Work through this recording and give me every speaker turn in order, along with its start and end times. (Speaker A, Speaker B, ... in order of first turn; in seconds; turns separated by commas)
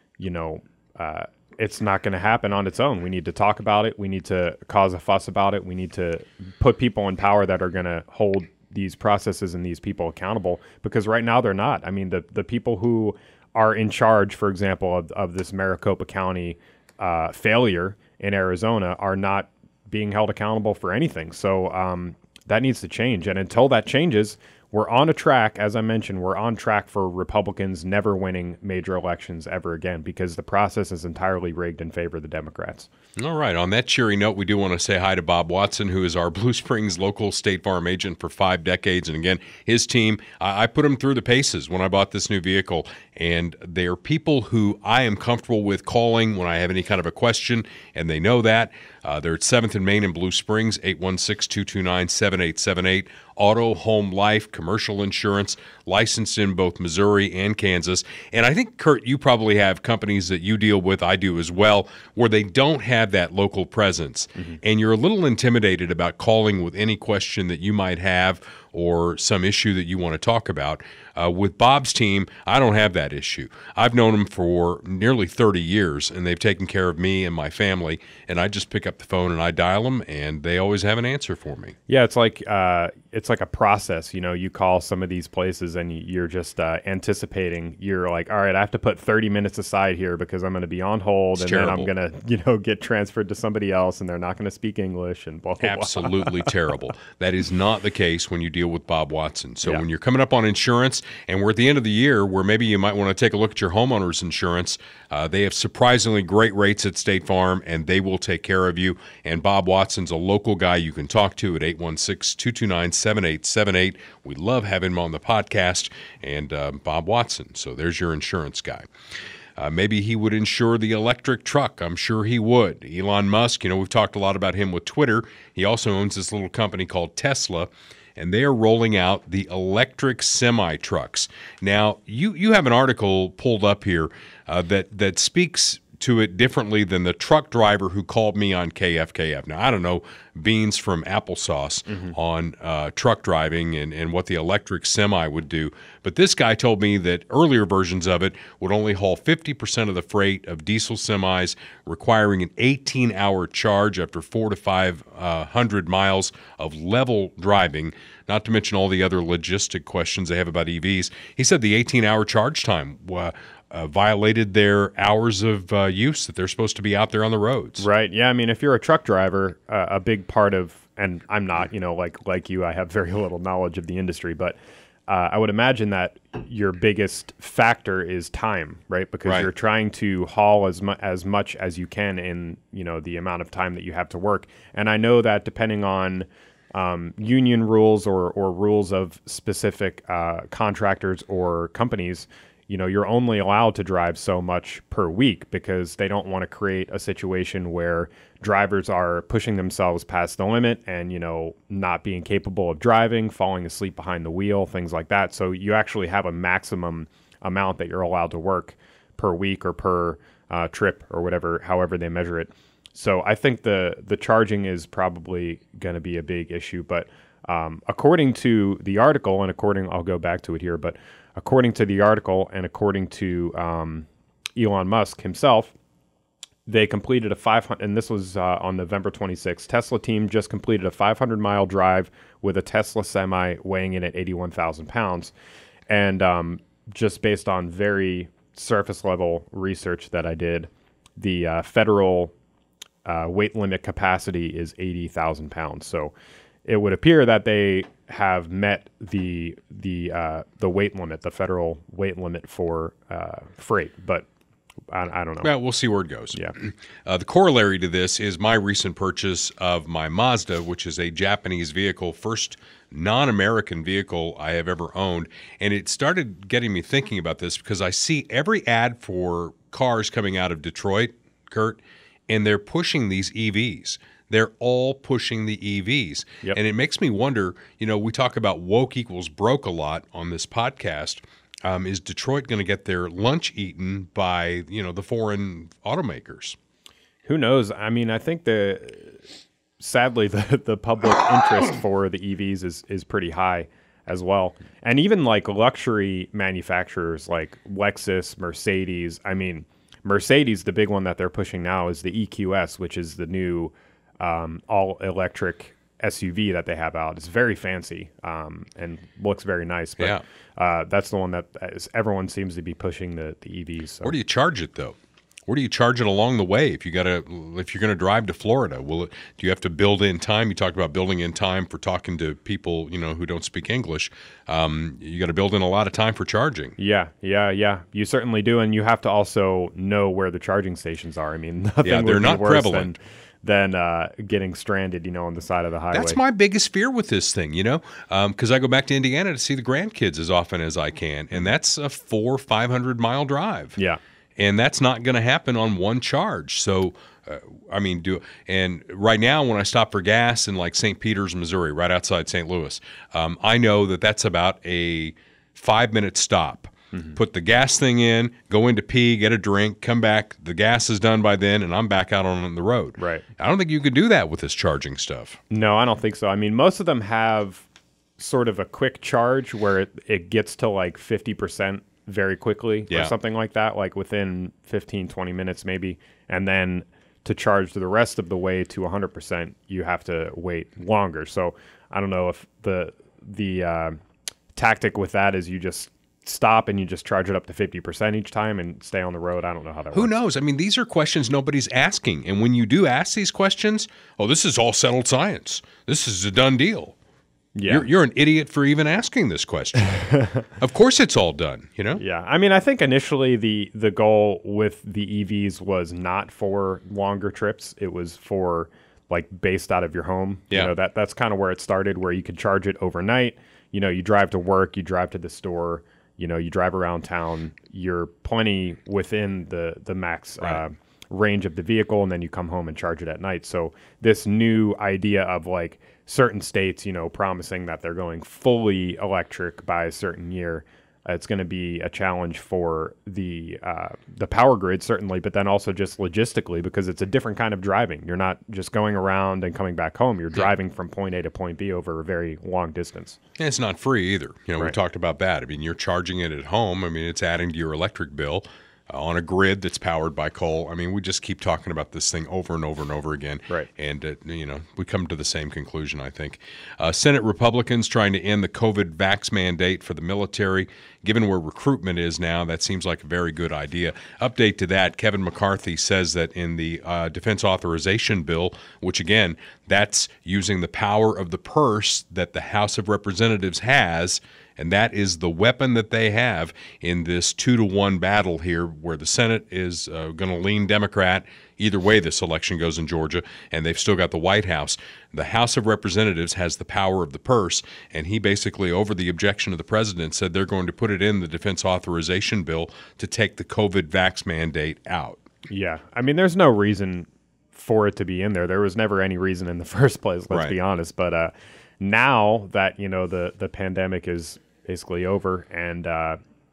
Speaker A: 0.2-32.9, Speaker B: 33.2-81.8, Speaker A: 81.9-96.5, Speaker B: 91.3-91.9, Speaker B: 95.6-118.9, Speaker B: 119.6-167.8, Speaker A: 141.9-142.1, Speaker A: 167.8-225.7, Speaker A: 226.7-235.3, Speaker A: 235.9-242.3, Speaker A: 243.0-246.1, Speaker A: 246.6-254.2, Speaker A: 254.9-255.5, Speaker B: 255.4-286.6, Speaker A: 287.2-289.2, Speaker A: 289.8-314.1, Speaker B: 314.0-314.9, Speaker B: 315.5-326.7, Speaker A: 326.8-336.2, Speaker B: 331.8-332.9, Speaker B: 335.9-343.8, Speaker B: 344.4-365.4, Speaker A: 356.9-357.2, Speaker A: 363.0-363.2, Speaker A: 365.5-367.6, Speaker A: 368.2-384.0, Speaker A: 384.5-390.1, Speaker B: 389.9-396.9, Speaker A: 397.5-397.9, Speaker B: 397.7-400.0, Speaker A: 399.9-400.4, Speaker B: 400.6-402.0, Speaker A: 401.9-443.2, Speaker B: 443.4-495.2, Speaker A: 495.5-506.2, Speaker B: 500.3-500.6